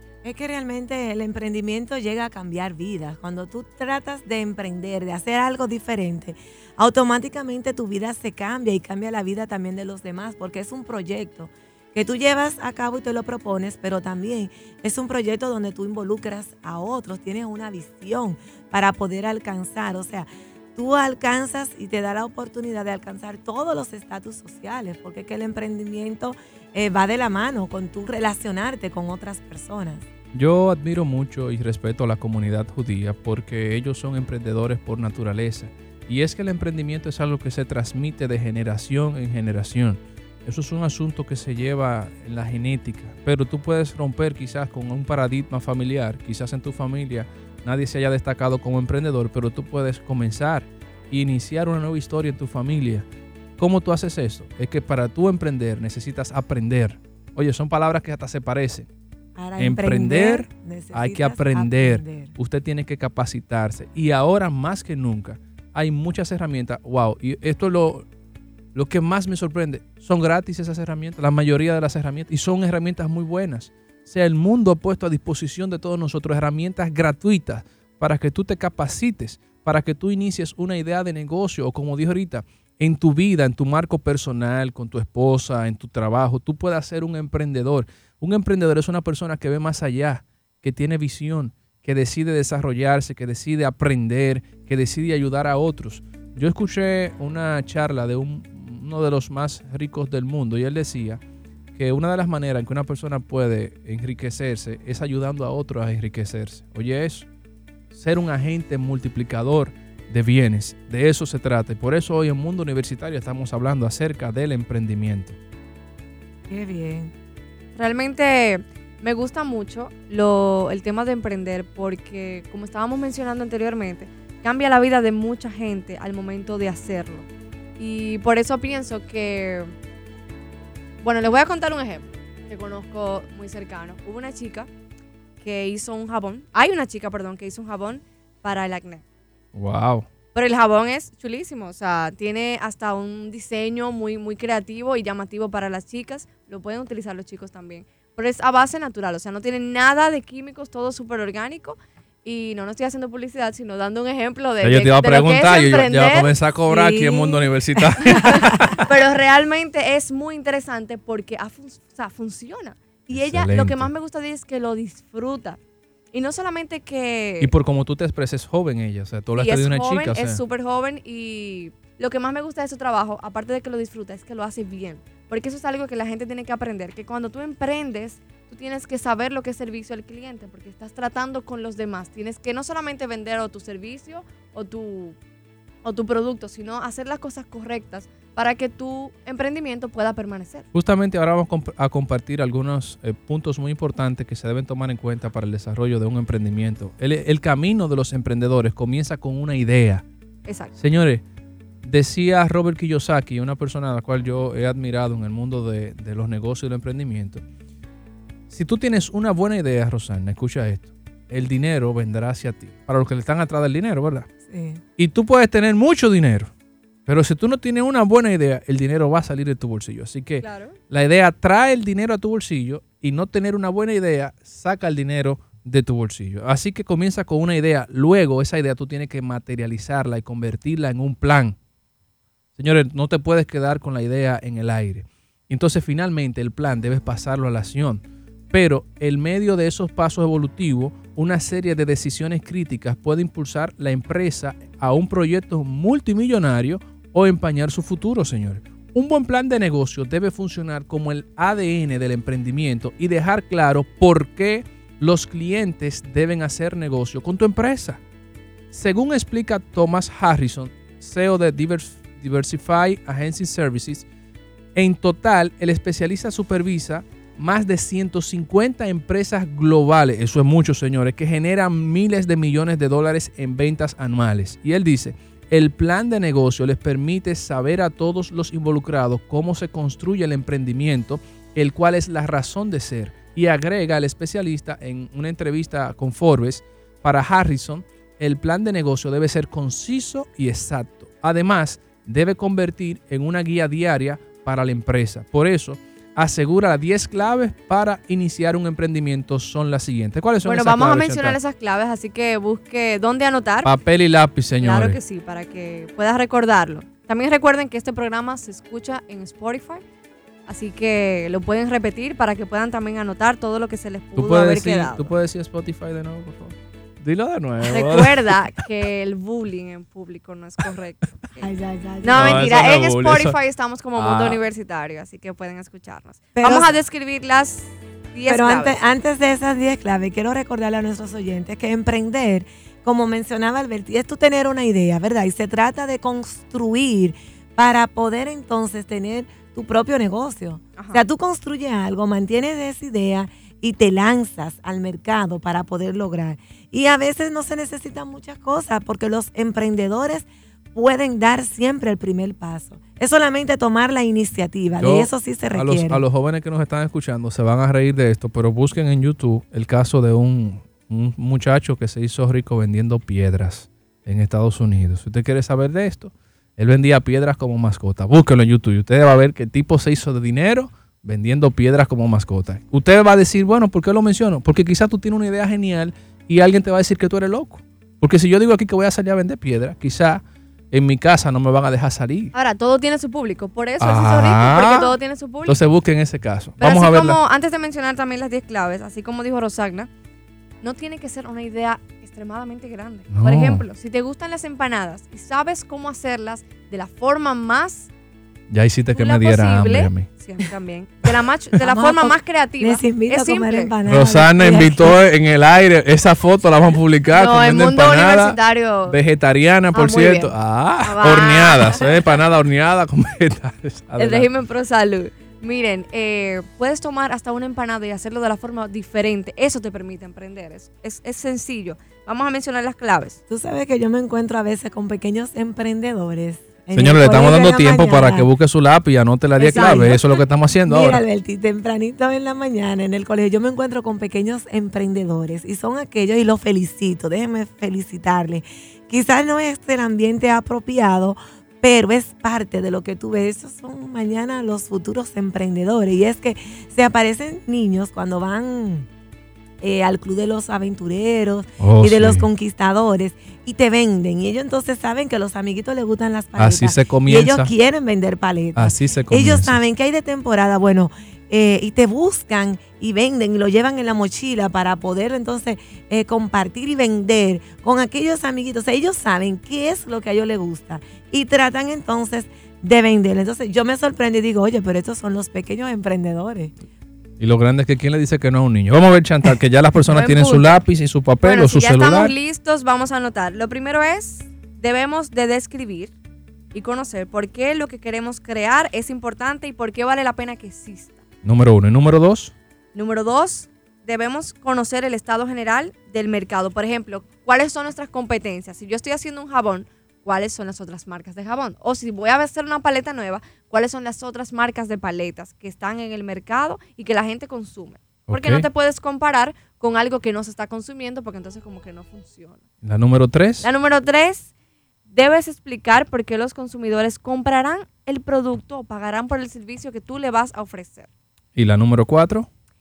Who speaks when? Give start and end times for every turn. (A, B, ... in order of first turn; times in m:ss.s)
0:00.2-0:30.0 A
0:30.3-0:53.0 B
0:53.6-0:58.9 B
0:59.4-1:02.3 A
0:59.6-1:08.0 B
1:08.7-1:41.2 B
1:41.7-1:47.3 B
1:47.9-1:55.4 B
1:56.5-1:57.1 A
1:57.8-2:07.3 C
2:07.8-2:09.7 C
2:11.0-2:14.7 C
2:15.4-2:19.0 C
2:19.5-2:20.1 B
2:20.3-2:37.1 C
2:34.6-2:38.9 B
2:36.8-2:37.2 A
2:38.0-2:45.6 C
2:38.3-2:38.7 A
2:43.1-2:43.9 B
2:46.1-2:47.5 C
2:47.4-2:50.4 B
2:49.4-3:05.2 C
3:05.8-3:10.6 C
3:10.7-3:20.0 B
3:20.5-3:20.7 C
3:20.8-3:21.2 B
3:21.8-3:27.4 B
3:28.5-3:34.3 B
3:34.5-3:34.8 A
3:35.0-3:36.5 B
3:37.0-3:51.6 B
3:40.4-3:40.8 C
3:52.6-4:18.0 B
4:18.7-4:24.0 B
4:24.7-5:01.4 B
5:00.4-5:03.7 C
5:03.6-5:05.0 B
5:04.6-5:09.8 C
5:10.5-5:15.1 C
5:14.2-5:18.4 B
5:17.6-5:21.4 C
5:21.4-5:22.5 A
5:22.0-5:28.8 C
5:22.1-5:23.4 B
5:23.9-5:24.4 B
5:26.4-5:26.7 A
5:28.3-5:56.0 A
5:40.8-5:41.0 C
5:54.8-6:22.3 B
6:22.3-6:25.6 C
6:23.8-6:27.2 B
6:26.6-6:29.9 C
6:30.6-6:37.9 C
6:33.1-6:33.6 B
6:38.5-6:40.1 B
6:38.9-6:43.7 C
6:41.6-6:45.0 A
6:43.8-6:54.3 B
6:47.1-6:49.0 C
6:49.7-6:51.9 C
6:54.0-7:03.2 C
7:03.3-7:08.3 A
7:06.7-7:11.0 B
7:09.4-7:10.0 C
7:09.5-7:10.0 A
7:10.6-7:28.9 A
7:29.6-7:56.5 A
7:31.6-7:32.3 B
7:36.4-7:37.5 B
7:38.6-7:39.6 B
7:57.2-8:02.1 B
7:59.9-8:00.6 C
8:01.2-8:05.9 C
8:06.5-8:11.0 C
8:11.2-8:12.3 B
8:12.7-8:32.4 C
8:28.1-8:28.4 B
8:32.6-8:33.4 B
8:33.4-8:34.3 C
8:34.9-8:40.9 C
8:41.4-8:42.3 B